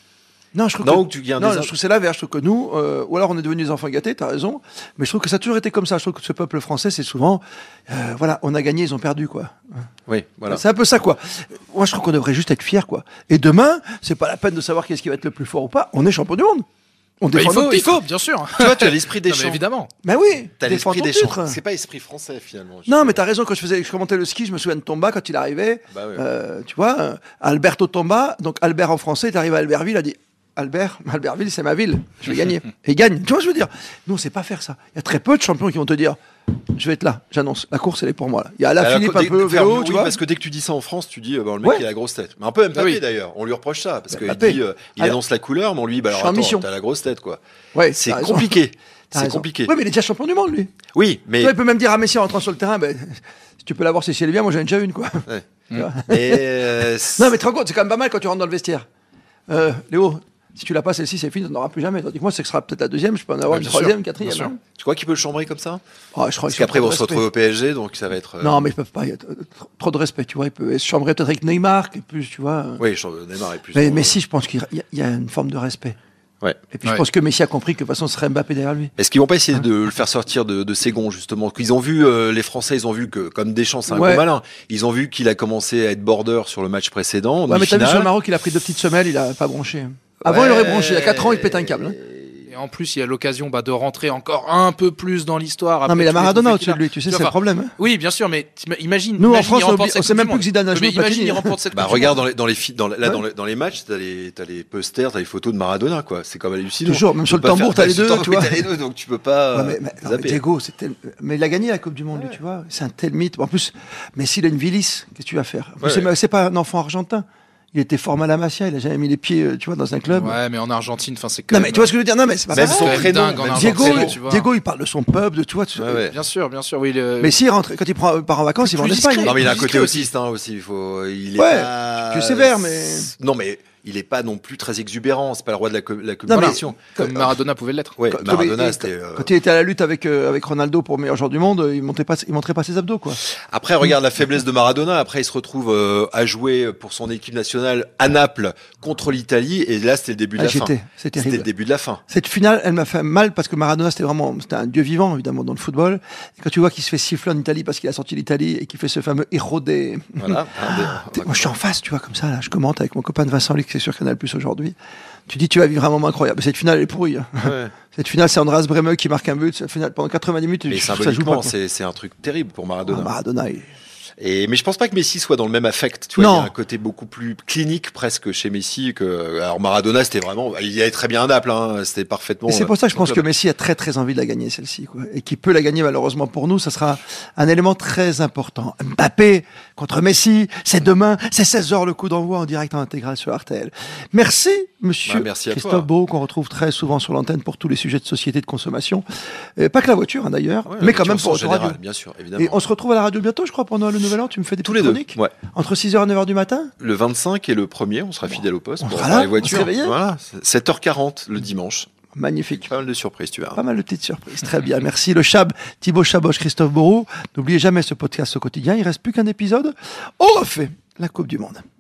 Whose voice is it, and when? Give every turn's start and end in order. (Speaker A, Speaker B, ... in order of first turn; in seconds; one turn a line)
Speaker A: 0.5-9.6
Speaker B: 0.8-1.7
Speaker B: 10.1-10.6
Speaker A: 10.5-16.7
Speaker A: 17.2-18.0
Speaker C: 17.3-19.9
Speaker B: 18.6-19.6
Speaker A: 20.0-21.6
Speaker B: 20.6-23.2
Speaker A: 22.9-36.2
Speaker B: 25.9-26.2
Speaker A: 36.7-40.2
Speaker B: 38.8-47.4
Speaker C: 42.7-43.0
Speaker A: 44.1-45.2
Speaker A: 46.1-46.7
Speaker A: 47.7-48.6
Speaker B: 47.9-49.7
Speaker A: 49.1-50.7
Speaker B: 50.9-51.5
Speaker A: 51.4-58.9
Speaker B: 56.0-57.3
Speaker A: 59.5-64.6
Speaker B: 63.5-64.0
Speaker C: 64.2-64.5
Speaker B: 64.7-65.8
Speaker A: 66.1-67.2
Speaker B: 66.5-68.7
Speaker A: 68.4-72.8
Speaker B: 72.8-74.2
Speaker A: 73.7-76.0
Speaker A: 76.7-78.9
Speaker B: 79.0-88.1
Speaker A: 83.9-84.3
Speaker A: 87.5-92.0
Speaker B: 90.2-92.5
Speaker C: 92.5-102.2
Speaker A: 95.9-97.8
Speaker A: 99.2-101.6
Speaker B: 101.7-110.4
Speaker A: 106.8-108.7
Speaker A: 109.5-120.4
Speaker B: 115.8-116.1
Speaker C: 120.1-121.9
Speaker A: 121.5-126.1
Speaker B: 122.5-124.2
Speaker C: 122.5-124.5
Speaker B: 125.8-126.2
Speaker C: 126.1-127.3
Speaker A: 127.2-129.5
Speaker C: 128.6-130.1
Speaker B: 129.2-136.9
Speaker A: 131.4-133.1
Speaker A: 136.3-137.3
Speaker C: 136.3-138.0
Speaker B: 138.0-139.3
Speaker A: 138.1-143.2
Speaker B: 143.2-152.0
Speaker A: 150.4-151.5
Speaker A: 152.1-164.8
Speaker B: 160.2-161.6
Speaker A: 165.3-171.5
Speaker B: 167.4-167.7
Speaker B: 170.7-173.1
Speaker A: 172.9-173.7
Speaker B: 174.2-183.3
Speaker A: 176.2-176.5
Speaker A: 182.5-199.0
Speaker B: 195.1-195.9
Speaker A: 199.6-201.8
Speaker B: 200.7-202.6
Speaker A: 202.3-206.7
Speaker B: 204.6-205.3
Speaker B: 206.8-211.9
Speaker A: 208.8-210.0
Speaker A: 212.1-212.7
Speaker B: 212.6-213.6
Speaker A: 213.6-221.6